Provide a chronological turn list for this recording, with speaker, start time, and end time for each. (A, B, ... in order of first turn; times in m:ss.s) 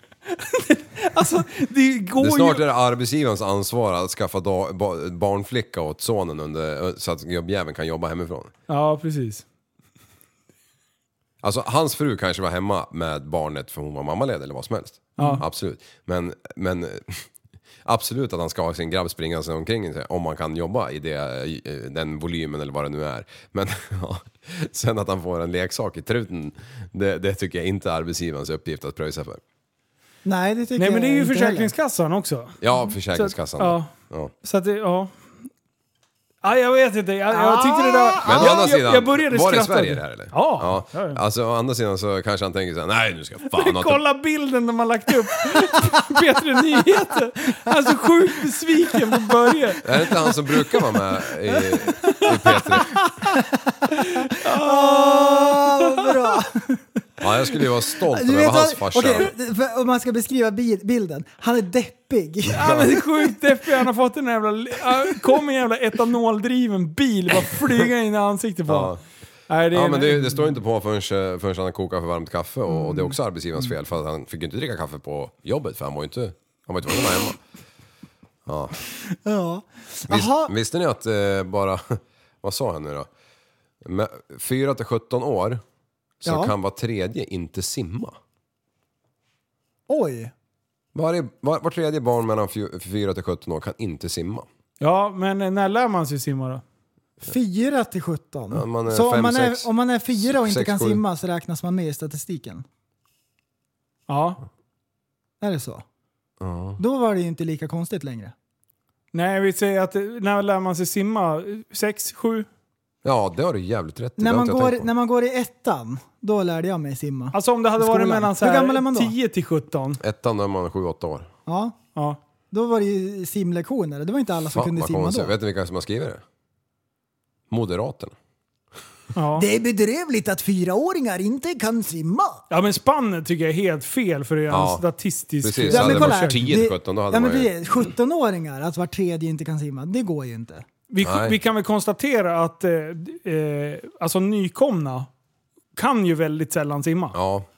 0:00.2-0:02.6 A
0:02.2-0:08.5 B
0:08.7-0:09.4 A
0:11.4-0:17.3 B
0:15.2-0:15.4 A
0:17.8-0:29.4 B
0:30.2-0:31.7 C
0:30.8-0:32.6 A
0:32.6-0:34.3 B
0:33.1-0:33.9 A
0:34.4-0:35.1 A
0:36.4-0:41.2 A
0:37.3-0:38.6 C
0:38.2-0:44.0 B
0:43.5-0:49.8 A
0:49.8-0:53.1 B
0:51.5-0:52.5 C
0:52.0-0:53.0 A
0:53.3-0:56.8 C
0:54.0-0:56.4 A
0:57.2-0:59.3 B
0:58.1-1:03.0 C
1:02.5-1:08.9 A
1:02.6-1:02.9 B
1:08.7-1:09.0 B
1:09.5-1:10.5 A
1:09.7-1:17.4 B
1:12.7-1:13.7 C
1:18.4-1:18.8 B
1:19.2-1:20.5 C
1:20.1-1:23.1 B
1:23.8-1:25.6 B
1:26.2-1:28.2 B
1:26.2-1:26.5 C
1:29.9-1:30.3 C
1:30.9-1:34.5 B
1:34.8-1:36.6 A
1:37.2-1:42.6 C
1:38.5-1:41.0 B
1:44.1-1:44.4 A
1:45.4-1:45.8 C
1:46.4-1:46.8 B
1:46.8-1:48.3 C
1:49.1-1:52.5 A
1:53.0-1:54.9 B
1:54.2-1:59.1 C
1:57.3-2:00.0 A
2:00.0-2:01.3 B
2:01.4-2:01.8 C
2:02.5-2:05.3 C
2:04.5-2:06.2 B
2:07.5-2:08.1 B
2:09.1-2:09.4 A
2:09.3-2:12.4 C
2:12.5-2:16.5 A
2:14.5-2:14.8 B
2:15.4-2:17.5 B
2:15.7-2:20.7 C
2:20.9-2:25.1 A
2:21.0-2:21.4 B
2:25.8-2:27.2 A
2:27.1-2:27.5 B